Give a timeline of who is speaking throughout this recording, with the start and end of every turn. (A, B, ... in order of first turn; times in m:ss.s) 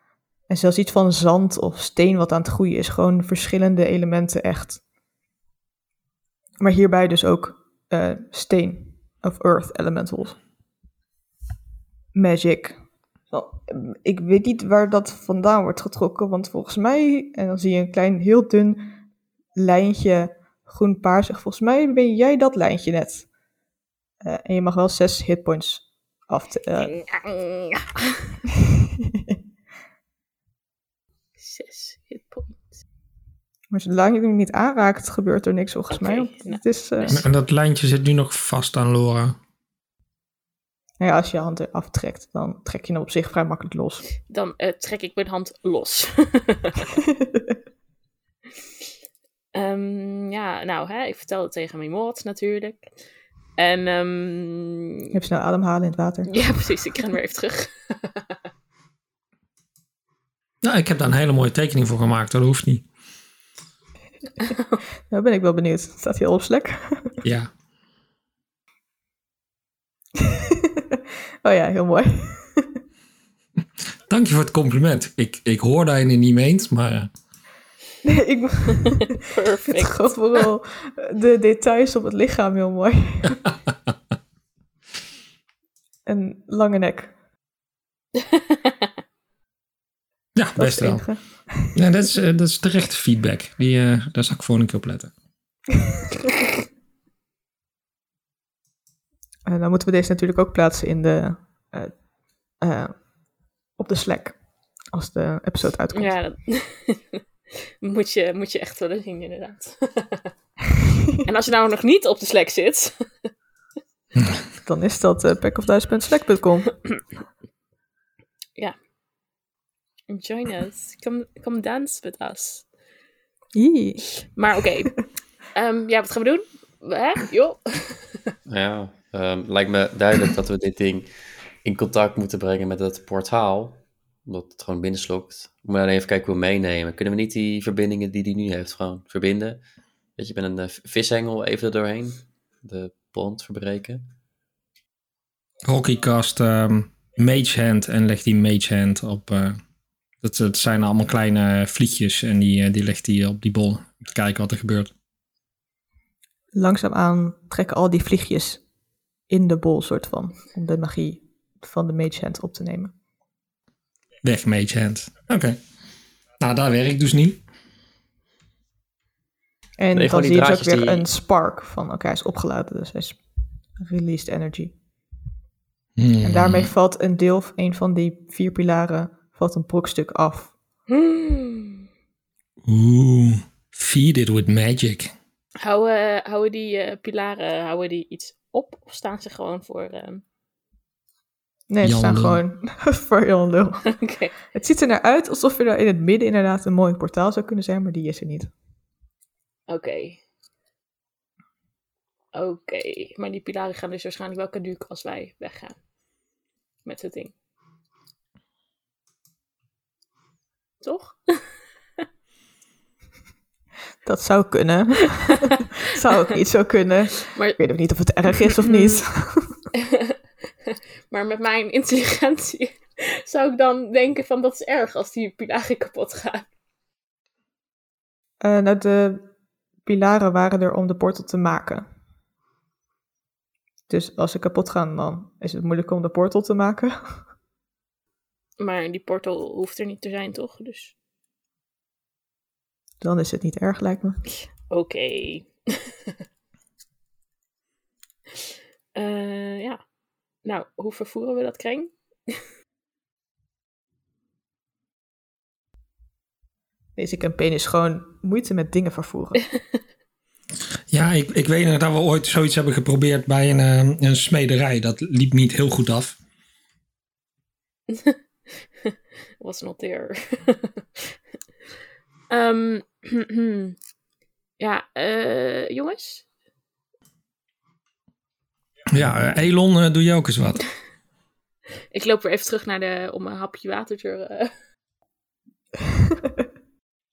0:00.5-0:04.8 A
0:06.6-0:10.4 A
0:12.1-0:12.8 A
0:13.3-0:19.0 A
0:19.6-0:23.3 A
0:24.2-0:26.9 A
0:26.8-0:28.2 B
0:29.0-0:29.4 A
0:31.4-0:32.6 B
0:33.7-0:37.2 A
0:35.9-0:37.2 B
0:37.1-0:39.4 C
0:41.0-0:44.0 A
0:44.3-0:47.0 B
0:49.5-0:52.8 B
0:53.6-0:55.1 B
0:55.1-0:56.3 A
0:56.3-0:58.4 B
1:00.6-1:02.8 C
1:04.5-1:04.8 B
1:05.1-1:07.2 A
1:07.2-1:07.5 C
1:10.2-1:12.8 A
1:14.1-1:17.1 C
1:18.0-1:19.2 A
1:18.8-1:20.1 B
1:19.7-1:23.4 A
1:26.1-1:27.1 A
1:28.2-1:28.9 B
1:30.4-1:31.1 C
1:30.6-1:31.7 A
1:31.7-1:35.1 C
1:39.5-1:42.0 A
1:42.6-1:43.0 A
1:43.8-1:44.4 A
1:44.9-1:46.2 A
1:45.9-1:47.2 B
1:47.8-1:50.3 B
1:51.2-1:53.3 B
1:54.6-1:56.7 A
2:00.1-2:02.6 B
2:03.6-2:04.1 A
2:04.3-2:08.3 B
2:08.5-2:11.1 D
2:11.6-2:19.6 D
2:20.2-2:24.0 D
2:25.6-2:29.6 C
2:30.2-2:34.9 C
2:36.5-2:38.6 A
2:39.3-2:42.9 A
2:44.2-2:45.6 C
2:46.4-2:47.4 C
2:49.8-2:53.2 A
2:49.9-2:51.1 D
2:53.8-2:54.8 A
2:56.0-2:56.7 C
2:56.2-3:00.5 A
3:00.9-3:01.8 B
3:02.6-3:05.1 C
3:05.6-3:10.2 B
3:11.7-3:13.9 A
3:11.8-3:12.4 C
3:13.9-3:14.4 B
3:14.5-3:18.5 A
3:19.7-3:20.2 B
3:22.3-3:25.8 B
3:26.8-3:27.3 B
3:30.8-3:31.4 B
3:34.0-3:39.6 A
3:37.3-3:37.6 B
3:38.6-3:39.0 B
3:39.8-3:46.5 B
3:48.4-3:49.3 A
3:49.8-3:51.9 A
3:53.9-3:57.2 A
3:58.6-4:00.9 B
4:03.0-4:04.2 A
4:04.7-4:06.2 B
4:08.4-4:09.8 B
4:10.4-4:12.4 B
4:17.0-4:19.4 A
4:20.9-4:26.2 C
4:27.9-4:28.2 B
4:28.8-4:31.1 B
4:32.3-4:33.8 B
4:34.6-4:36.2 B
4:38.9-4:40.6 C
4:41.9-4:44.5 B